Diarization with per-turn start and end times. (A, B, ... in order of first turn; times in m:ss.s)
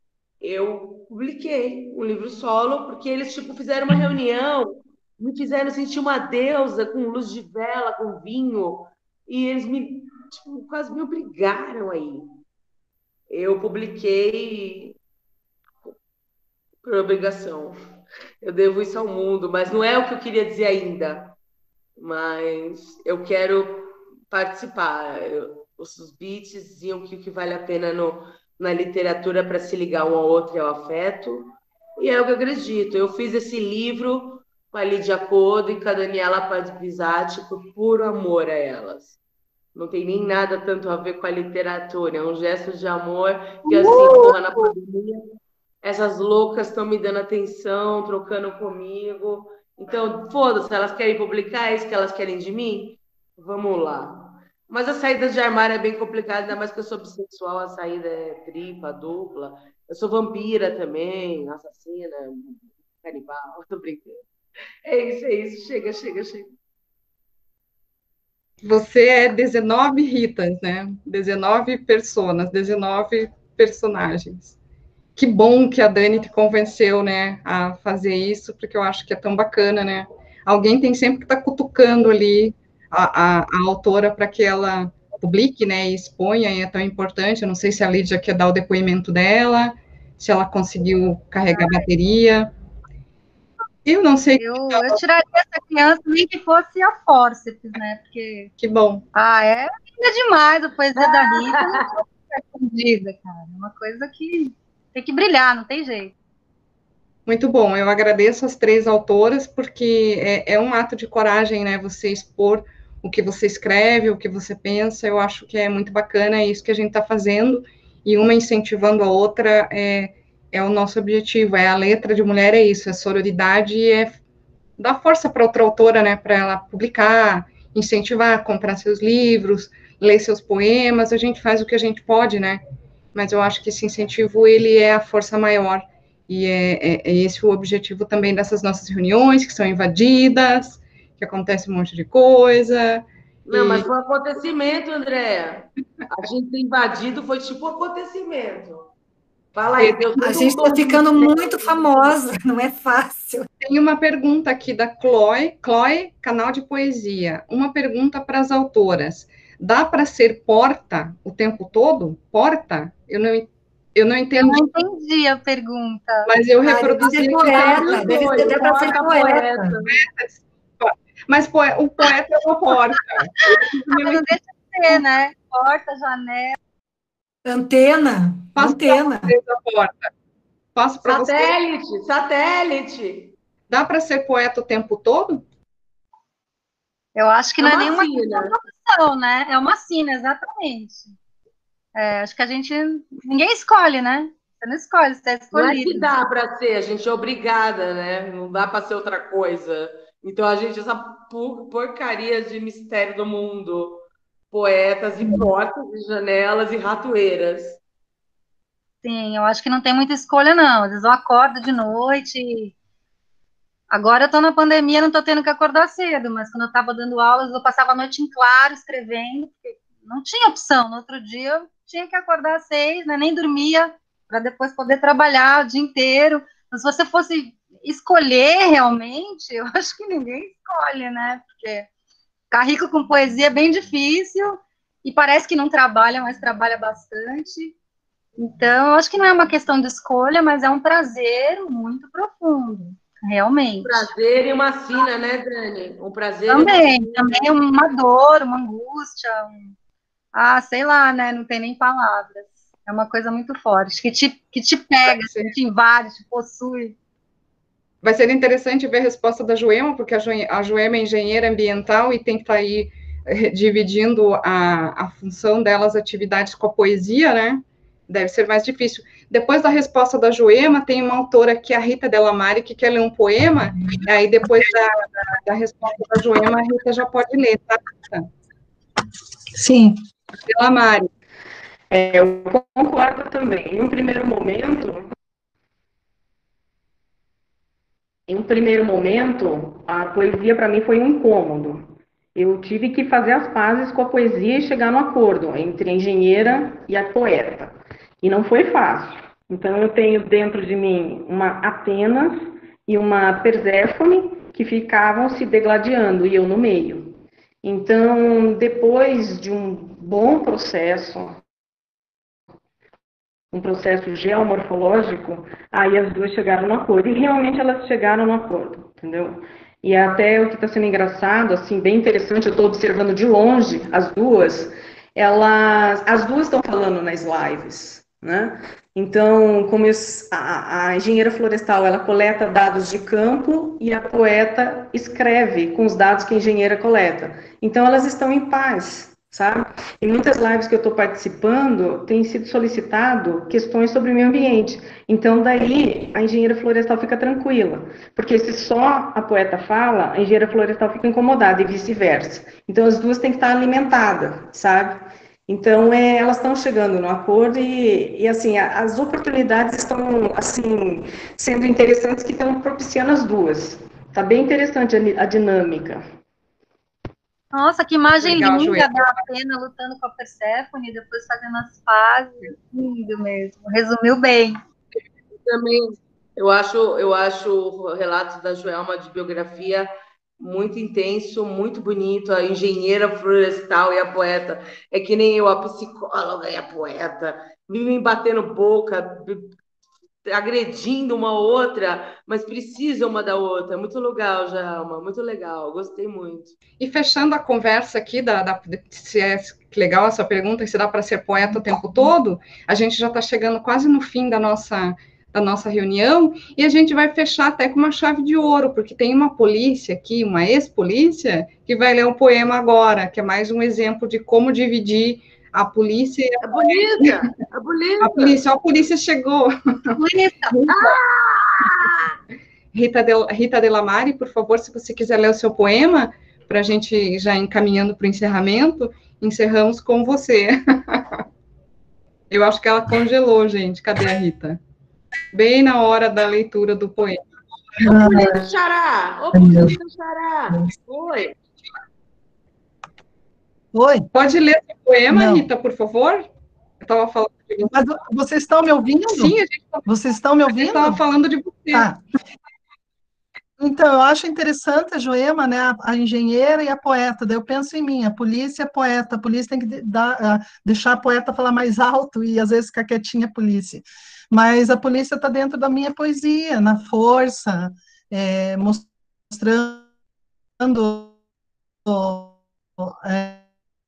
0:00.4-0:12.3 A
0:13.3-0:15.0 A
0:16.8-0:17.8 A
0:18.4-0:21.4 A
0:22.0-0:39.2 A
0:39.8-0:45.2 A
0:43.8-0:44.4 B
0:45.8-1:04.2 A
1:04.8-1:06.5 A
1:08.6-1:14.6 C
1:15.2-1:32.5 C
1:31.5-1:31.8 B
1:33.9-1:35.0 C
1:34.4-1:38.5 B
1:38.6-1:39.0 C
1:39.2-1:46.1 B
1:41.0-1:41.8 A
1:47.3-2:04.2 C
2:04.8-2:12.6 C
2:13.1-2:23.9 C
2:23.5-2:28.9 A
2:29.5-2:32.1 A
2:29.8-2:30.1 C
2:30.2-2:33.5 D
2:33.6-2:44.7 C
2:44.4-2:46.3 B
2:46.3-2:48.4 C
2:46.6-2:49.8 D
2:47.4-2:50.0 A
2:49.9-2:54.3 C
2:53.9-2:56.6 B
2:57.5-2:59.4 D
2:58.6-3:00.1 C
3:00.8-3:01.6 C
3:01.3-3:03.3 A
3:03.7-3:05.4 C
3:07.2-3:11.1 B
3:07.6-3:08.6 A
3:12.0-3:16.1 B
3:15.5-3:27.8 A
3:29.0-3:32.7 B
3:33.9-3:51.9 B
3:52.5-3:57.8 B
3:58.4-4:04.1 B
4:03.8-4:07.5 A
4:06.5-4:09.7 B
4:10.3-4:17.0 B
4:15.1-4:15.5 C
4:18.0-4:38.3 C
4:39.6-4:40.0 E
4:40.5-4:41.1 C
4:41.9-4:45.1 F
4:48.3-5:11.4 F
5:13.5-6:06.0 F
6:07.5-6:14.6 B
6:08.2-6:09.2 C
6:15.5-6:29.6 A
6:30.3-6:36.6 A
6:36.8-6:57.2 C
6:56.4-6:58.4 A
6:58.0-6:59.9 C
7:00.0-7:00.5 B
7:00.5-7:01.0 C
7:00.7-7:02.2 A
7:02.7-7:11.2 C
7:12.3-7:14.6 C
7:15.3-7:17.2 C
7:17.8-7:18.4 E
7:18.0-7:21.4 A
7:19.3-7:19.8 E
7:23.7-7:24.1 E
7:24.1-7:26.3 C
7:25.1-7:25.5 E
7:26.8-7:27.8 C
7:27.7-7:31.0 E
7:29.1-7:29.9 C
7:30.5-7:31.9 C
7:31.7-7:32.0 E
7:33.6-7:49.9 E
7:50.6-7:51.1 E
7:51.9-7:53.4 E